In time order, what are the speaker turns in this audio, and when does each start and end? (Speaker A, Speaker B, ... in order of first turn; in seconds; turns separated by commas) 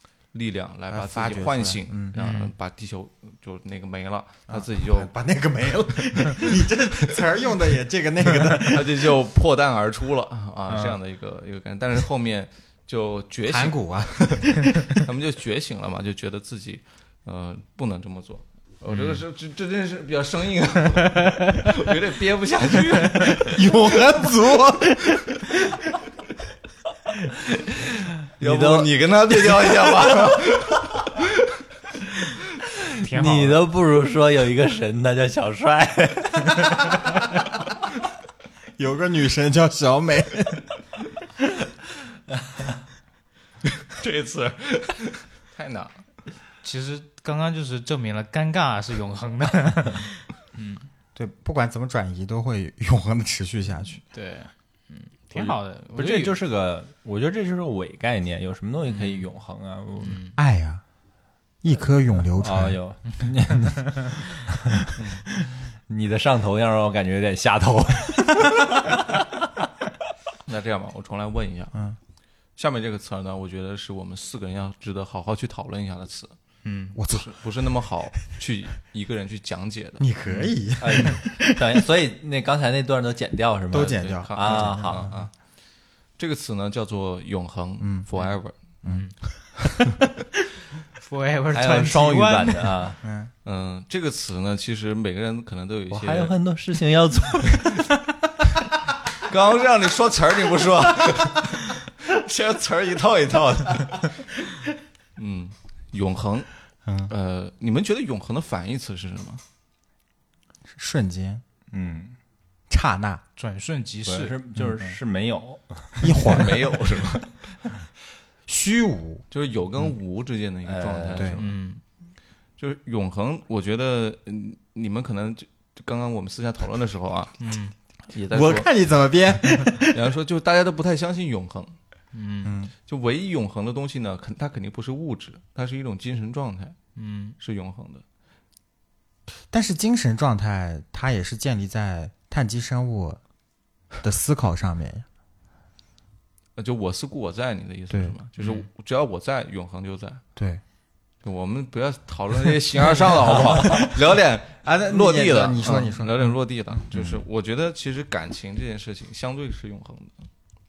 Speaker A: 0.3-5.1, Speaker B: 0.9-2.2, Speaker C: 2.2-2.5, Speaker B: 4.5-9.1, Speaker A: 8.6-24.0, Speaker C: 10.7-11.0, Speaker B: 13.5-14.7, Speaker B: 23.5-25.2, Speaker A: 28.4-31.3, Speaker D: 28.4-30.2, Speaker D: 33.0-37.0, Speaker C: 33.0-33.6, Speaker B: 38.8-40.7, Speaker A: 43.9-46.0, Speaker C: 46.6-50.9, Speaker B: 51.1-54.0, Speaker C: 54.1-56.4, Speaker D: 55.3-60.2, Speaker C: 58.9-59.3, Speaker C: 60.0-60.4, Speaker B: 60.4-60.8, Speaker B: 61.6-62.8, Speaker D: 62.4-64.5, Speaker A: 65.0-65.2, Speaker D: 65.9-69.2, Speaker A: 70.5-71.7, Speaker A: 72.6-76.4, Speaker C: 76.7-77.0, Speaker B: 77.0-77.3, Speaker A: 77.1-80.1, Speaker B: 80.0-81.8, Speaker D: 80.8-85.1, Speaker B: 83.7-85.2, Speaker A: 83.9-85.3, Speaker A: 86.2-88.6, Speaker B: 87.8-88.1, Speaker C: 88.8-89.1, Speaker C: 91.0-92.7, Speaker D: 91.5-93.0, Speaker B: 93.0-93.3, Speaker A: 93.5-96.4, Speaker D: 95.9-97.9, Speaker A: 99.2-104.2, Speaker A: 105.2-106.5, Speaker A: 107.0-109.4, Speaker B: 110.7-111.4, Speaker D: 111.7-112.2, Speaker B: 112.7-113.2, Speaker C: 113.4-114.3, Speaker D: 114.1-116.4, Speaker B: 114.6-114.8, Speaker B: 116.0-116.8, Speaker A: 116.2-117.3, Speaker B: 118.5-119.2, Speaker A: 119.3-121.5, Speaker D: 120.7-121.4, Speaker C: 121.4-121.8, Speaker A: 122.6-127.4, Speaker C: 127.4-127.7, Speaker A: 128.1-128.7, Speaker B: 128.3-129.9, Speaker A: 129.8-131.8, Speaker C: 132.1-132.5, Speaker B: 132.4-132.7, Speaker A: 132.9-136.8, Speaker C: 137.0-137.4, Speaker A: 137.4-138.0, Speaker B: 139.5-143.2, Speaker B: 144.0-145.1, Speaker A: 146.6-150.2, Speaker B: 147.9-148.2, Speaker C: 148.4-148.6, Speaker B: 150.4-150.6, Speaker A: 151.2-160.3, Speaker B: 154.6-156.2, Speaker B: 156.9-157.2